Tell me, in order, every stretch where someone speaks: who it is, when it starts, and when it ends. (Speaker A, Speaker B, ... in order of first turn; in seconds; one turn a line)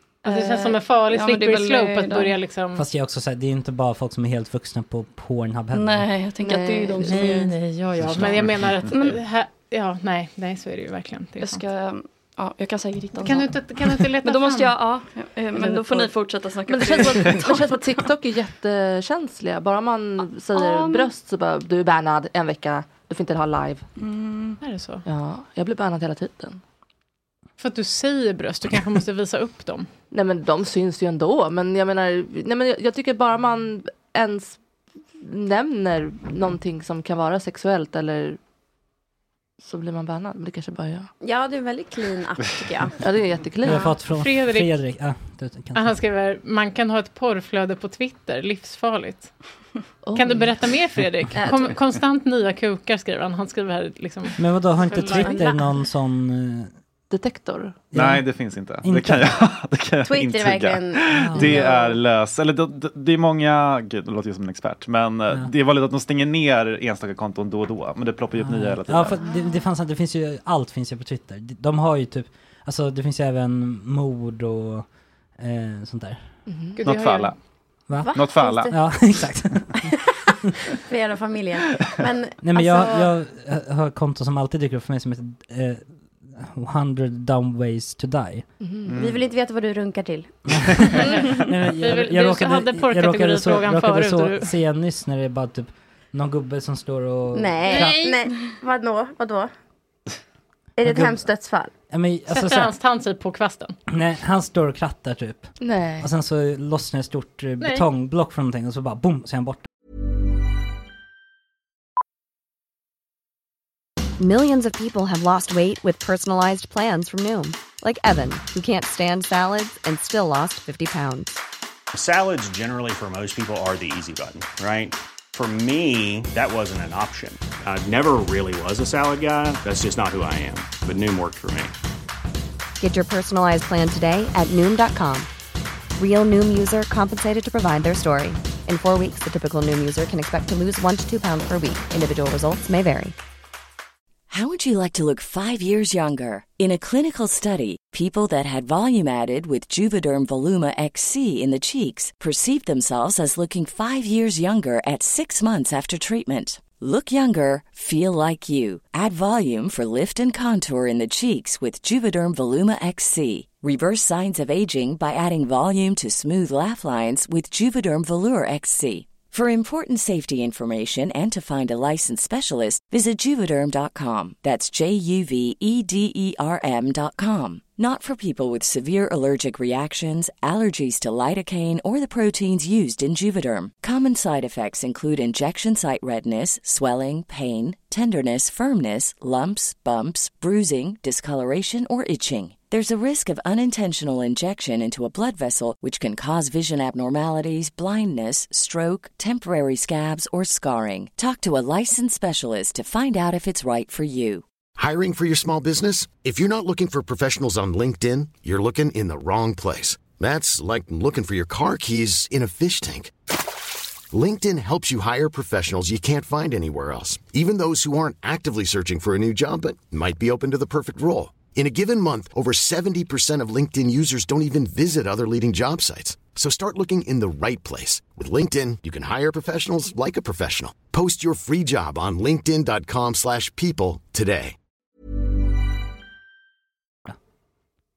Speaker A: 0.2-2.9
Speaker B: 0.2-2.3
Speaker C: 2.8-6.1
Speaker B: 5.7-7.5
Speaker D: 6.4-7.3
Speaker A: 7.0-11.6
Speaker E: 8.0-8.9
Speaker B: 8.9-9.2
Speaker B: 11.4-17.8
Speaker A: 13.2-14.8
Speaker D: 15.5-16.1
Speaker D: 16.7-23.9
Speaker B: 20.5-21.1
Speaker B: 24.0-24.6
Speaker A: 24.6-25.0
Speaker D: 25.1-26.6
Speaker A: 27.6-29.9
Speaker D: 30.1-34.6
Speaker D: 35.2-38.4
Speaker D: 39.6-41.1
Speaker F: 41.2-42.9
Speaker D: 43.0-43.9
Speaker C: 43.6-45.9
Speaker A: 43.7-44.7
Speaker A: 45.7-49.3
Speaker D: 50.0-50.5
Speaker A: 50.1-55.6
Speaker C: 54.4-56.7
Speaker F: 55.2-55.5
Speaker D: 57.1-57.8
Speaker C: 57.9-59.3
Speaker E: 57.9-69.2
Speaker F: 60.1-62.0
Speaker C: 61.2-61.7
Speaker C: 68.4-74.9
Speaker C: 75.4-76.2
Speaker D: 76.5-76.8
Speaker A: 76.8-77.3
Speaker E: 76.8-77.4
Speaker C: 77.9-78.2
Speaker F: 78.0-79.0
Speaker E: 78.1-78.7
Speaker C: 78.7-79.9
Speaker F: 80.9-83.1
Speaker C: 82.4-88.5
Speaker D: 88.6-89.0
Speaker E: 88.9-89.2
Speaker F: 89.0-90.5
Speaker C: 90.5-98.1
Speaker A: 91.0-94.5
Speaker F: 97.3-99.5
Speaker A: 97.7-98.0
Speaker F: 100.8-101.7
Speaker C: 100.8-101.3
Speaker C: 101.9-102.7
Speaker A: 102.3-103.8
Speaker C: 103.9-109.7
Speaker D: 105.6-106.1
Speaker A: 107.6-107.9
Speaker G: 114.2-121.4
Speaker H: 121.9-131.7
Speaker G: 132.8-135.3
Speaker G: 136.0-143.2
Speaker I: 144.3-204.4
Speaker J: 204.8-213.1
Speaker J: 214.1-234.5